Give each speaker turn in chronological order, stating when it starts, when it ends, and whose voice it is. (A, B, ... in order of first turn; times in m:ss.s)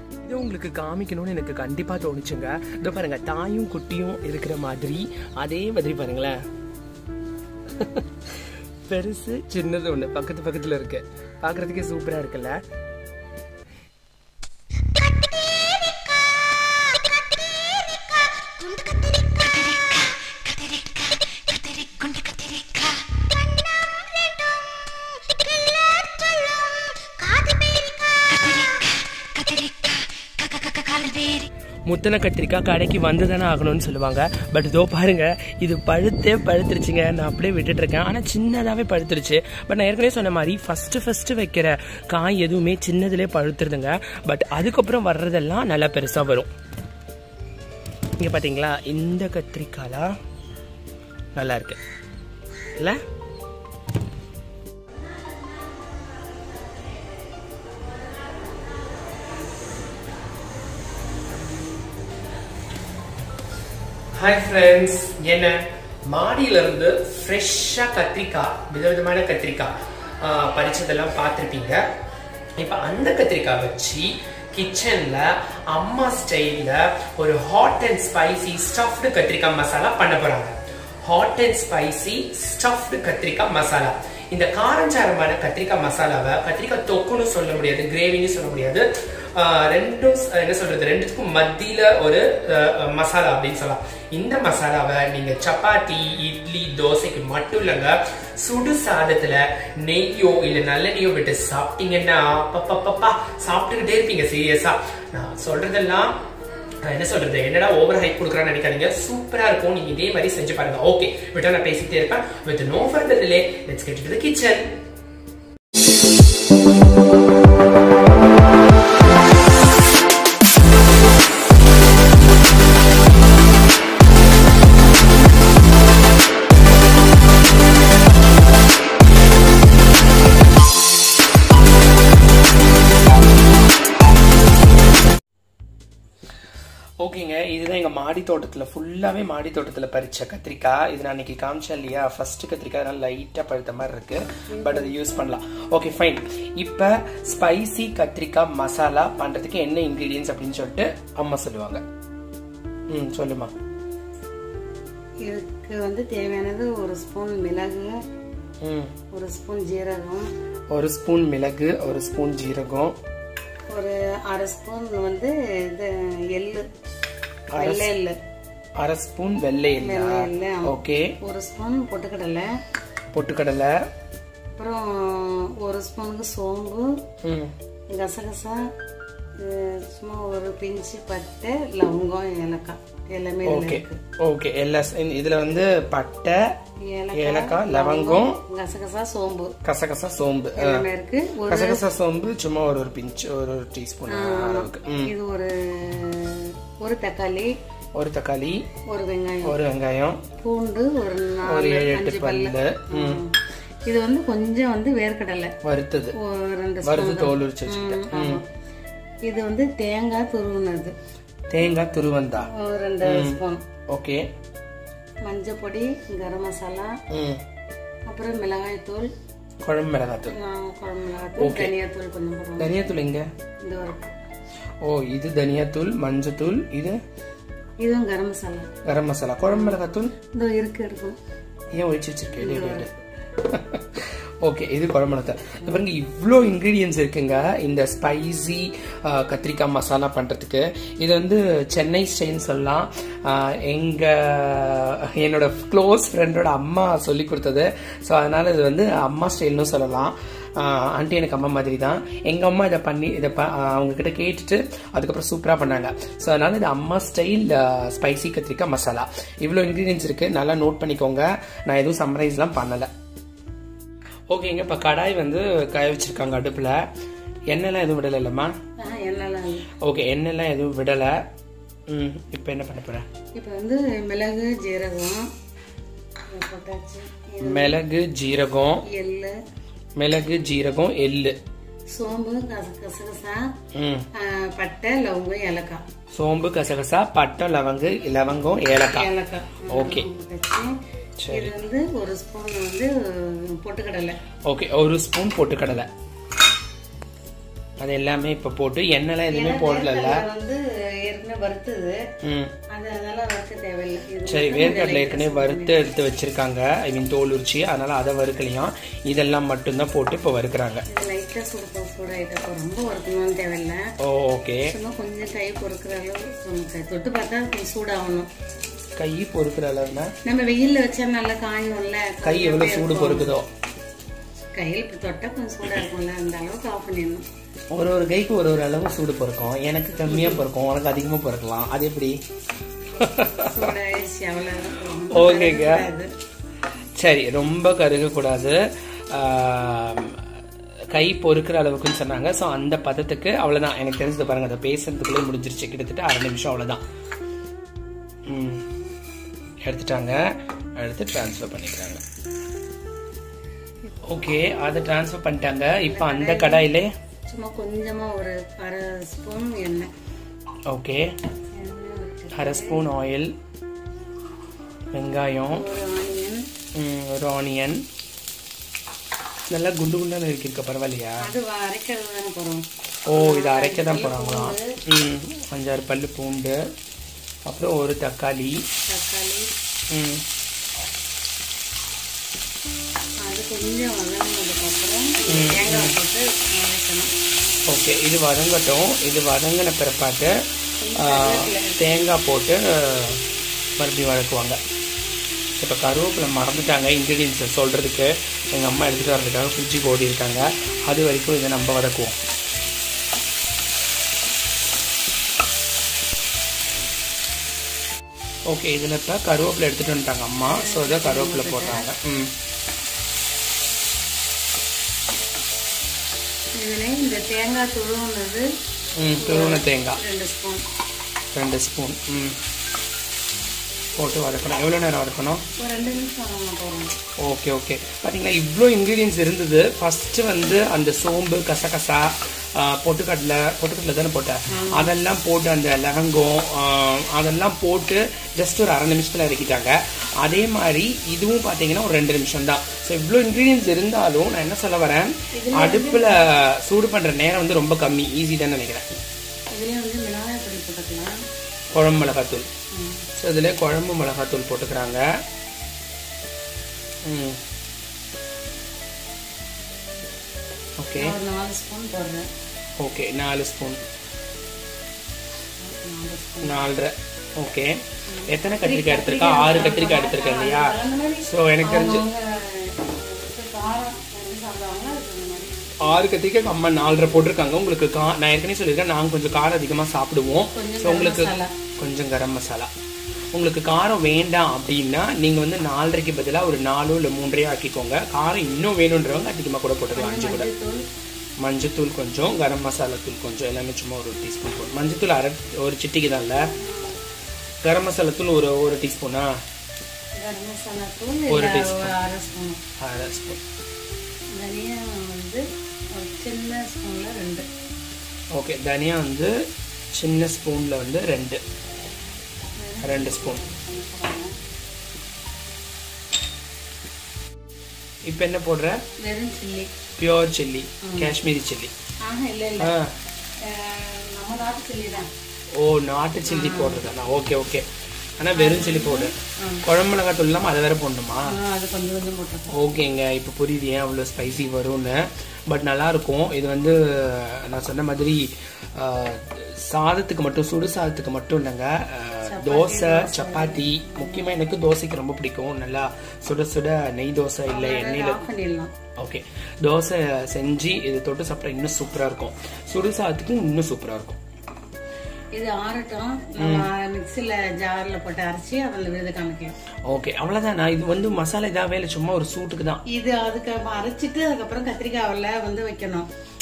0:00.2-0:06.4 A
0:07.7-0:12.6 A
0:31.8-0:46.5 A
0:48.2-0:50.1 A
0:51.3-0:51.8 A
1:04.1-1:11.8 A
1:12.6-1:46.2 A
1:46.8-1:54.7 A
2:17.0-2:31.8 A
2:24.5-2:24.9 B
2:32.9-2:33.5 A
2:35.2-2:37.9 B
2:38.6-2:38.9 A
2:39.1-2:40.3 B
2:40.7-2:43.0 A
2:43.7-2:46.6 B
2:47.5-2:47.9 A
2:47.6-2:48.2 B
2:48.8-2:51.1 A
2:49.8-2:52.5 B
2:53.1-2:53.7 A
2:54.6-2:56.9 B
2:57.2-2:57.5 A
2:57.9-2:58.6 B
2:59.4-3:04.0 B
3:03.4-3:06.4 A
3:06.9-3:09.5 B
3:07.1-3:08.4 A
3:09.6-3:10.8 A
3:10.6-3:11.8 B
3:11.5-3:15.1 A
3:14.1-3:17.5 B
3:17.9-3:18.6 A
3:18.9-3:19.6 B
3:19.4-3:20.2 A
3:20.4-3:25.5 B
3:21.4-3:23.2 A
3:25.6-3:26.1 A
3:26.2-3:28.4 B
3:26.8-3:28.4 A
3:29.2-3:30.9 B
3:31.5-3:32.5 A
3:32.4-3:33.6 B
3:33.0-3:34.2 A
3:35.2-3:37.0 B
3:37.1-3:37.4 A
3:38.1-3:39.1 B
3:39.6-3:40.4 A
3:40.3-3:42.8 B
3:41.4-3:41.7 A
3:42.6-3:43.3 A
3:43.6-3:44.1 B
3:44.8-3:47.0 A
3:47.8-3:48.7 B
3:48.8-3:50.1 A
3:49.5-3:49.8 B
3:50.3-3:51.2 B
3:51.7-4:22.9 A
3:52.4-3:52.8 B
4:24.3-4:26.8 A
4:27.5-4:28.5 A
4:28.8-4:29.7 B
4:29.8-4:31.2 A
4:31.9-4:33.1 A
4:33.3-4:35.3 B
4:36.3-4:37.8 B
4:37.4-4:38.8 A
4:38.9-4:39.4 B
4:40.0-4:41.4 A
4:41.9-4:43.5 B
4:43.7-4:44.1 A
4:44.2-4:45.8 B
4:46.1-4:49.1 A
4:48.9-4:50.7 B
4:49.7-4:50.1 A
4:51.2-4:51.5 A
4:51.3-4:54.2 B
4:54.5-4:55.9 A
4:57.8-5:00.2 A
4:59.3-5:02.0 B
5:02.2-5:02.5 A
5:02.7-5:05.8 B
5:04.3-5:10.8 A
5:10.9-5:13.8 B
5:14.0-5:14.7 A
5:14.6-5:18.3 B
5:19.0-5:20.1 A
5:20.2-5:23.3 B
5:22.2-5:23.5 A
5:24.5-5:27.2 B
5:27.7-5:32.2 A
5:30.1-5:30.4 B
5:33.0-5:33.7 A
5:33.2-5:36.1 B
5:35.1-5:35.9 A
5:37.0-5:38.6 A
5:39.1-5:40.2 A
5:40.9-5:46.8 A
5:48.3-5:48.7 A
5:49.6-5:52.0 A
5:54.1-5:56.9 A
5:55.8-5:56.7 B
5:57.3-5:59.9 B
6:00.7-6:01.1 A
6:01.5-6:02.8 B
6:02.3-6:03.3 A
6:04.9-6:05.6 A
6:05.4-6:06.4 B
6:06.8-6:07.8 A
6:09.5-6:11.2 A
6:11.2-6:14.7 B
6:13.1-6:16.6 A
6:17.5-6:18.6 A
6:18.9-6:19.5 B
6:19.9-6:20.2 A
6:23.3-6:27.1 B
6:25.3-6:26.0 A
6:27.7-6:30.3 A
6:30.8-6:32.0 B
6:31.0-6:33.2 A
6:33.8-6:34.6 A
6:35.6-6:42.2 A
6:48.5-6:52.3 A
6:50.4-6:51.9 B
6:56.6-6:58.5 B
6:59.0-7:00.0 A
6:59.2-7:00.6 B
7:01.3-7:02.4 A
7:04.0-7:05.4 A
7:05.6-7:06.9 B
7:07.2-7:28.8 A
7:14.5-7:14.9 B
7:25.3-7:26.4 B
7:29.5-7:31.2 B
7:31.7-7:32.5 A
7:32.7-7:33.0 B
7:33.2-7:35.0 A
7:37.0-7:37.4 A
7:40.8-7:41.2 A
7:40.9-7:42.3 B
7:42.8-7:43.8 A
7:45.6-7:46.6 B
7:46.4-7:52.0 A
7:48.1-7:55.5 B
7:55.8-8:02.7 A
8:00.5-8:01.5 B
8:03.3-8:10.5 A
8:09.9-8:10.8 B
8:11.4-8:16.4 A
8:16.6-8:17.0 B
8:17.6-8:19.3 A
8:20.2-8:22.6 B
8:21.3-8:21.9 A
8:22.8-8:23.4 A
8:24.4-8:25.4 B
8:26.0-8:27.4 B
8:28.3-8:29.3 A
8:29.9-8:31.4 A
8:32.6-8:34.3 B
8:32.8-8:33.4 A
8:38.1-8:38.8 A
8:39.0-8:39.7 B
8:40.0-8:41.7 A
8:40.8-8:41.1 B
8:42.1-8:42.7 B
8:42.6-8:42.9 A
8:43.5-8:45.1 B
8:45.6-8:47.7 A
8:46.2-8:46.8 B
8:48.2-8:49.1 A
8:48.3-8:49.6 B
8:49.6-8:51.4 A
8:51.3-8:52.7 B
8:52.5-9:08.2 A
9:02.2-9:04.3 B
9:07.5-9:08.7 B
9:09.0-9:14.2 A
9:15.3-9:19.5 B
9:16.4-9:16.7 A
9:19.8-9:22.8 A
9:22.9-9:26.1 B